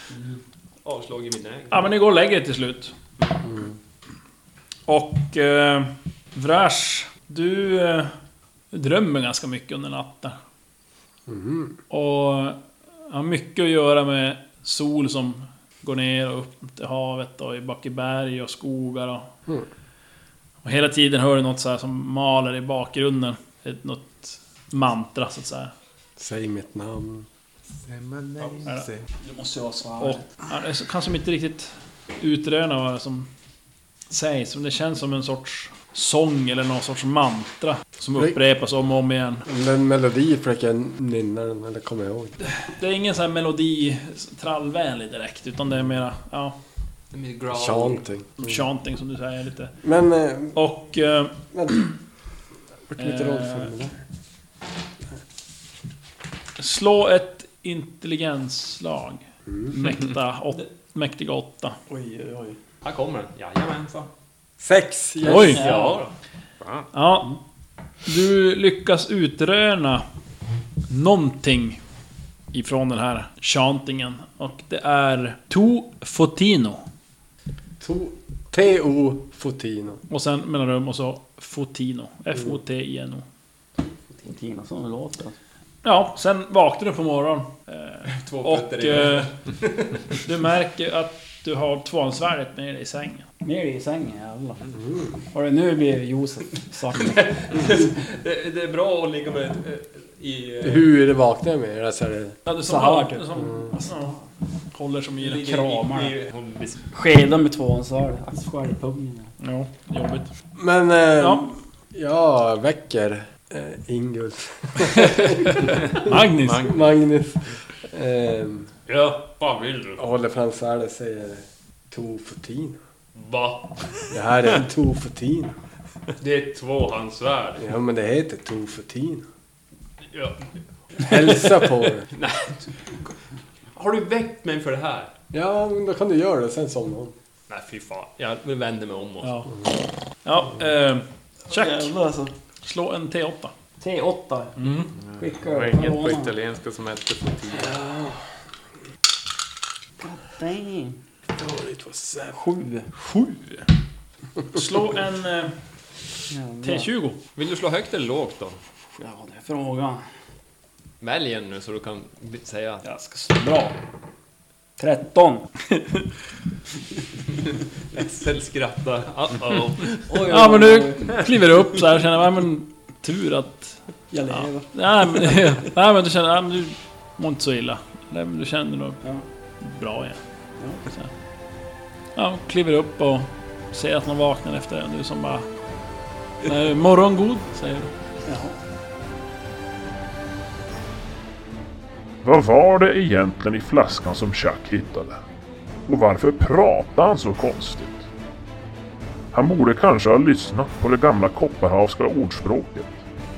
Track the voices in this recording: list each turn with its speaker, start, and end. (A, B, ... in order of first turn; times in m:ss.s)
0:00.8-0:01.9 A
0:01.7-0:02.9 B
0:04.9-0:08.1 B
0:08.7-0:10.4 B
0:11.3-0:11.7 C
0:11.9-0:12.6 B
0:13.1-0:19.3 B
0:20.6-0:25.7 B
0:26.2-0:27.3 C
0:27.8-0:29.1 D
0:29.2-0:30.3 E
0:30.0-0:33.3 B
0:34.1-0:39.4 B
0:39.5-0:42.3 C
0:42.4-0:46.6 B
0:47.1-0:48.1 A
0:47.5-0:48.3 C
0:48.4-0:49.7 B
0:49.8-0:50.6 C
0:50.6-0:51.9 B
0:52.9-0:53.9 C
0:53.0-0:53.7 B
0:56.6-1:01.8 B
1:01.9-1:02.6 E
1:02.8-1:04.1 A
1:04.6-1:05.6 C
1:05.2-1:05.6 B
1:05.4-1:06.1 A
1:05.5-1:06.0 E
1:06.6-1:06.9 D
1:06.9-1:07.3 B
1:08.1-1:10.0 B
1:10.9-1:11.8 B
1:12.5-1:16.8 B
1:17.8-1:20.0 C
1:20.1-1:23.2 B
1:24.2-1:25.4 E
1:25.8-1:29.3 B
1:28.1-1:30.2 A
1:30.2-1:33.2 B
1:33.4-1:34.6 E
1:35.3-1:37.6 E
1:37.0-1:40.9 A
1:40.6-1:42.4 C
1:42.5-1:44.2 B
1:42.6-1:44.1 E
1:44.7-1:45.5 B
1:45.2-1:46.9 A
1:45.4-1:46.1 E
1:46.9-1:49.3 E
1:49.4-1:50.3 B
1:50.6-1:58.7 C
1:51.2-1:51.5 B
1:54.8-1:56.7 B
1:56.5-1:56.8 D
1:58.9-2:00.0 A
2:00.0-2:02.8 C
2:03.2-2:03.8 A
2:04.1-2:05.5 C
2:06.2-2:07.6 A
2:07.6-2:09.2 C
2:10.1-2:12.7 A
2:11.0-2:12.0 C
2:13.8-2:15.1 A
2:15.3-2:17.1 C
2:17.5-2:19.4 A
2:19.2-2:19.6 B
2:20.2-2:21.9 B
2:21.5-2:22.3 E
2:22.6-2:23.5 B
2:23.8-2:24.6 E
2:24.6-2:24.9 B
2:25.1-2:27.8 D
2:25.2-2:26.3 E
2:27.6-2:28.2 C
2:30.0-2:31.0 E
2:31.4-2:32.4 C
2:32.3-2:32.9 E
2:33.0-2:33.7 B
2:34.5-2:35.6 B
2:36.3-2:36.9 E
2:36.6-2:37.2 B
2:37.4-2:38.6 A
2:39.0-2:40.0 E
2:41.0-2:42.8 A
2:42.8-2:43.8 E
2:44.8-2:45.5 E
2:47.9-2:50.2 A
2:50.1-2:51.2 E
2:50.2-2:59.0 B
2:54.1-2:55.5 E
2:59.6-3:00.2 B
3:00.9-3:01.1 B
3:02.2-3:05.5 B
3:06.4-3:07.9 B
3:08.2-3:08.5 E
3:12.2-3:15.2 F
3:15.9-3:18.1 F
3:19.3-3:23.0 F